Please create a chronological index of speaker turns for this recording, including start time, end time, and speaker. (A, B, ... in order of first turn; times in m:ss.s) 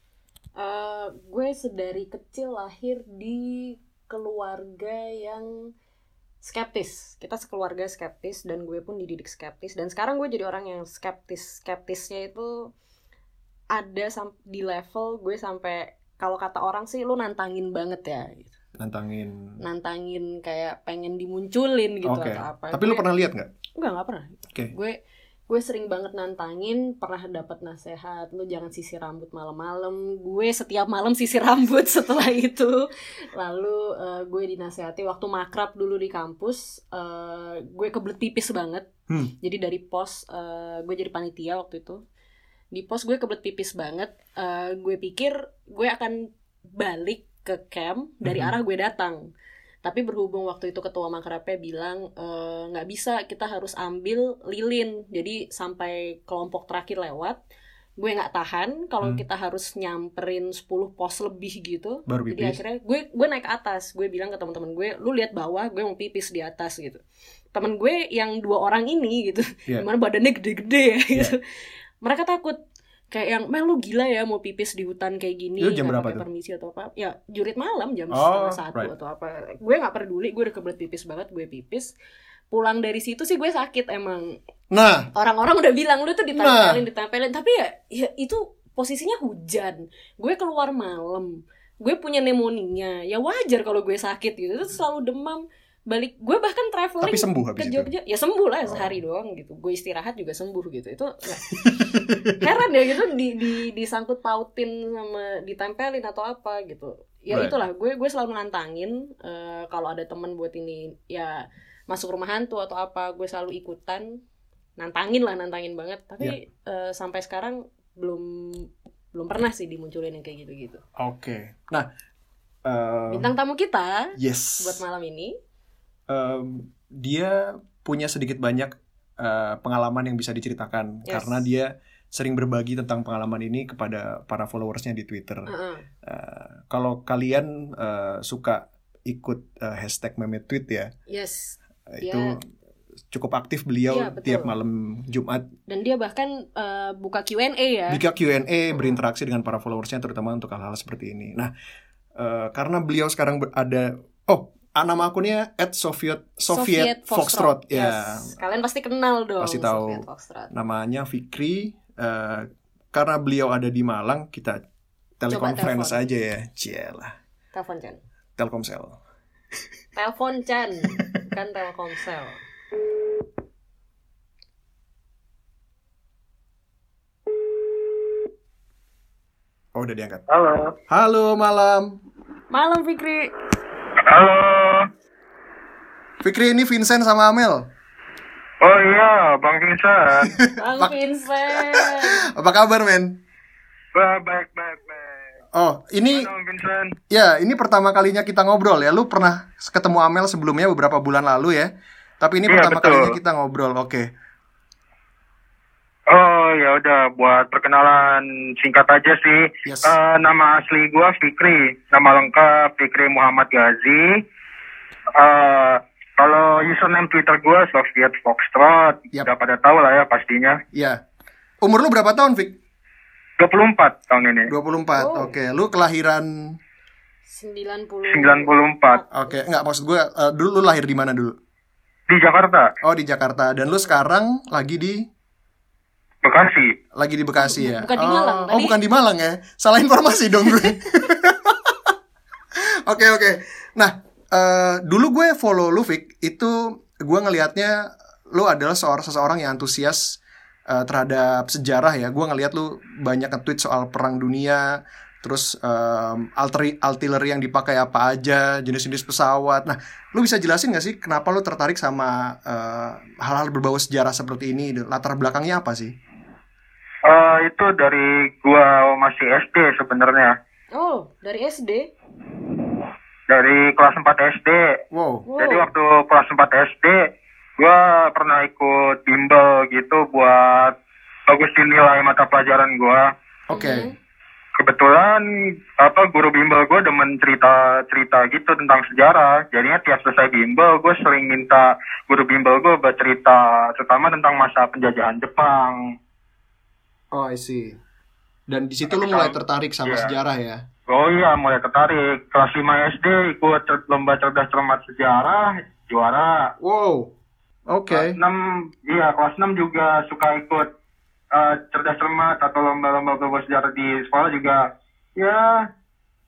0:00.6-0:05.7 A
0:06.4-0:12.7 A
0:13.7-0:18.5 A
0:18.8-0:19.6 B
0:19.6-0:23.0 A
0:22.0-0:23.5 B
0:23.8-0:25.0 A
0:25.5-0:38.9 A
0:39.1-0:39.3 B
0:39.4-0:42.0 A
0:42.7-0:49.3 A
0:48.2-0:48.5 B
0:49.8-0:57.4 A
0:58.0-1:07.0 A
1:02.1-1:02.6 B
1:07.5-1:11.4 A
1:12.0-1:12.6 A
1:13.1-1:21.9 A
1:15.6-1:16.2 B
1:18.1-1:18.9 B
1:22.5-1:24.4 A
1:24.7-1:25.1 B
1:25.1-1:54.2 A
1:26.3-1:26.8 B
1:37.0-1:37.9 B
1:38.6-1:39.0 B
1:41.6-1:42.4 B
1:47.3-1:47.6 B
1:54.8-2:00.8 A
2:01.0-2:01.9 B
2:02.6-2:03.3 B
2:03.1-2:05.4 A
2:04.2-2:04.8 B
2:06.1-2:15.5 B
2:11.0-2:11.4 A
2:15.5-2:15.8 A
2:16.0-2:20.9 B
2:21.1-2:22.4 A
2:21.9-2:22.4 B
2:23.1-2:25.5 B
2:23.9-2:24.5 A
2:25.7-2:28.0 A
2:27.9-2:31.5 B
2:32.2-2:38.3 B
2:36.5-2:40.5 A
2:39.4-2:44.6 B
2:45.2-2:47.2 B
2:45.3-2:46.0 A
2:47.5-2:48.0 A
2:48.4-2:49.0 B
2:50.0-2:52.4 A
2:59.7-3:00.2 B
3:00.3-3:00.7 C
3:00.9-3:02.0 B
3:02.5-3:03.3 A
3:04.0-3:04.9 C
3:06.2-3:07.7 B
3:08.6-3:10.3 C
3:10.2-3:10.9 B
3:10.6-3:12.2 A
3:11.5-3:13.2 B
3:13.9-3:15.2 C
3:15.5-3:16.3 B
3:16.1-3:16.9 C
3:17.1-3:24.1 B
3:22.5-3:23.2 C
3:26.1-3:34.2 C
3:29.6-3:29.9 B
3:35.2-3:40.6 C
3:40.7-3:41.0 B
3:41.6-3:42.6 B
3:43.4-3:44.5 C
3:44.5-3:46.6 B
3:45.0-3:45.3 A
3:47.3-3:49.4 A
3:48.1-3:49.0 C
3:49.1-3:51.4 B
3:52.1-3:52.7 C
3:52.8-3:55.0 B
3:56.2-3:56.7 C
3:56.9-4:01.9 B
3:57.4-3:58.8 A
4:02.6-4:25.9 B
4:27.0-4:30.3 C
4:30.7-4:31.9 A
4:33.3-4:34.7 C
4:34.9-4:35.2 B
4:35.3-4:35.7 A
4:35.4-4:37.0 C
4:37.6-4:40.7 C
4:41.3-4:43.1 C
4:43.5-4:43.9 B
4:43.5-4:43.9 A
4:44.6-4:45.2 C
4:45.8-4:55.9 C
4:57.1-4:57.8 B
4:58.5-5:00.6 B
4:58.9-5:00.1 C
5:00.9-5:06.5 C
5:06.6-5:07.1 B
5:07.7-5:08.2 B
5:07.9-5:10.7 C
5:11.3-5:14.6 C
5:15.2-5:15.6 C